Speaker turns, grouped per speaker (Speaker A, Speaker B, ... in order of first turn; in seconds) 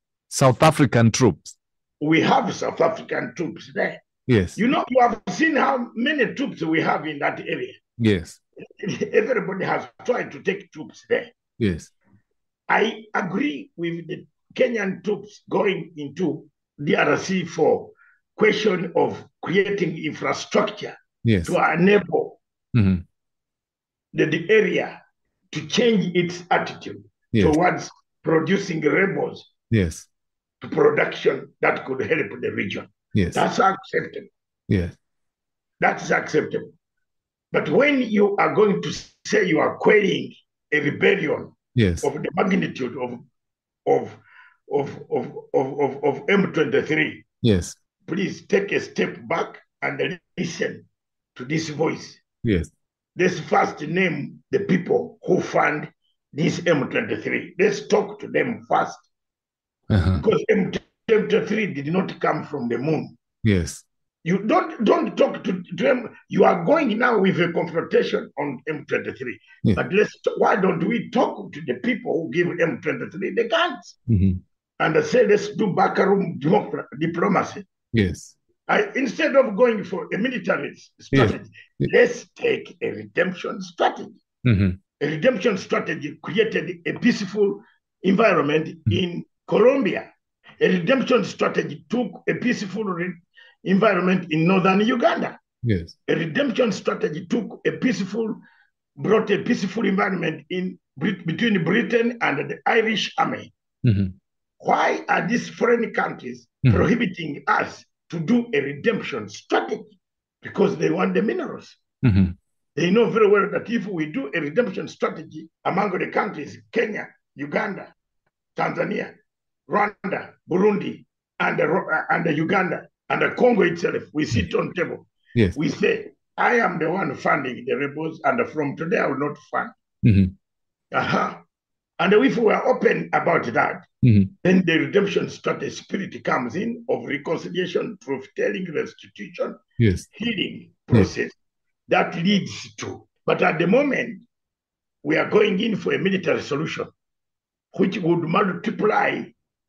Speaker A: 0.3-1.5, 4.3-4.6, 8.0-8.4, 11.6-11.9, 21.2-21.6, 22.7-23.0, 27.3-27.6, 29.7-30.1, 33.1-33.4, 34.7-35.0, 41.7-42.1, 47.4-47.8, 52.4-52.7, 59.9-60.2, 63.4-63.8, 74.1-74.4, 77.9-78.3, 81.1-81.9, 84.4-84.8, 95.6-95.9, 103.8-104.1, 112.0-112.3, 130.0-130.3, 134.0-134.3, 139.8-140.1
Speaker B: 2.0-4.0, 4.5-7.8, 8.6-11.3, 12.7-20.9, 21.4-22.4, 24.1-24.9, 25.5-29.5, 30.6-34.3, 35.8-36.7, 37.5-43.2, 43.8-47.2, 48.0-52.2, 53.1-59.1, 60.2-63.1, 64.2-74.0, 74.8-77.7, 78.7-84.2, 85.0-95.4, 96.0-98.4, 99.0-103.5, 104.6-111.8, 112.7-117.9, 118.5-119.2, 119.7-129.7, 130.9-131.4, 132.0-133.8, 134.4-139.6, 140.1-141.3, 141.9-144.2, 145.0-146.9, 147.7-149.3